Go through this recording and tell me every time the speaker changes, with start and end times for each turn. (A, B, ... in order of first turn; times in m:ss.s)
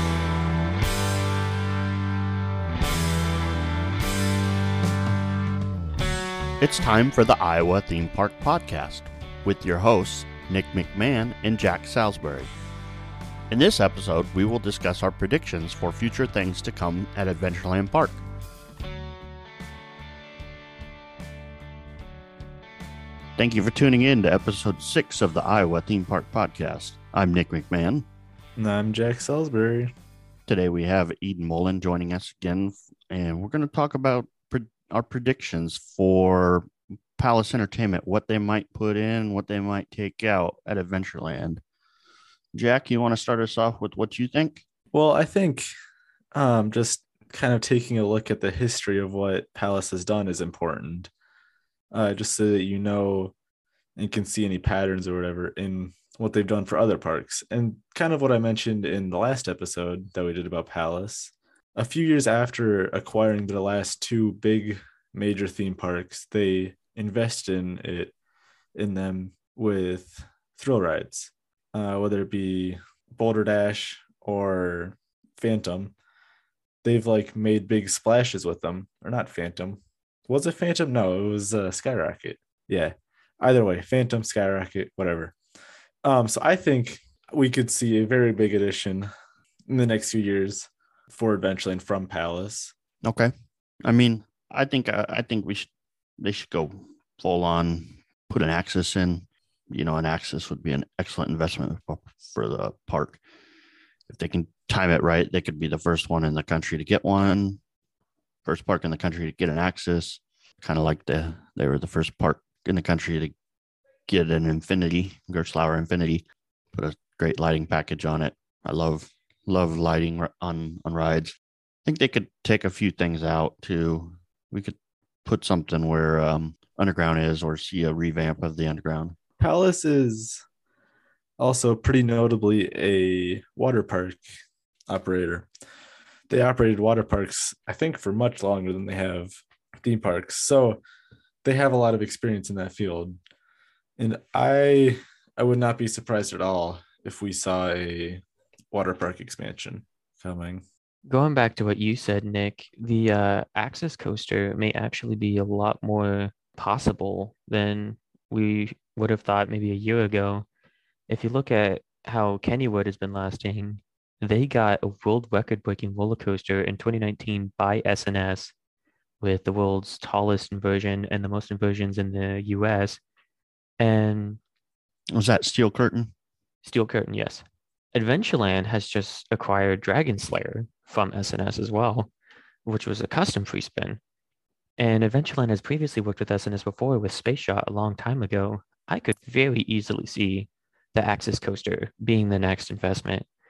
0:06.6-0:12.5 A
0:13.5-0:18.2 A
0:23.4-0:28.0 A
0:28.6-0:29.9 B
0:30.5-0:41.6 A
0:42.5-0:44.6 A
0:44.9-0:45.7 B
0:46.3-0:51.1 B
0:51.9-0:53.3 B
0:54.0-1:08.1 B
1:08.8-1:15.9 B
1:16.8-1:25.4 B
1:26.0-1:29.1 B
1:29.7-1:32.7 B
1:33.0-1:33.3 A
1:33.8-1:43.2 A
1:44.1-1:47.6 A
1:48.4-1:53.3 A
1:54.1-2:01.3 A
2:01.8-2:09.2 A
2:09.4-2:10.4 B
2:11.4-2:14.2 B
2:14.9-2:15.5 B
2:16.3-2:20.8 B
2:21.4-2:23.2 B
2:24.0-2:30.6 B
2:31.0-2:40.4 C
2:41.1-2:48.5 C
2:49.2-2:53.0 C
2:53.8-2:54.4 C
2:55.1-2:56.1 A
2:56.6-3:02.1 C
3:02.6-3:04.0 C
3:04.8-3:13.2 C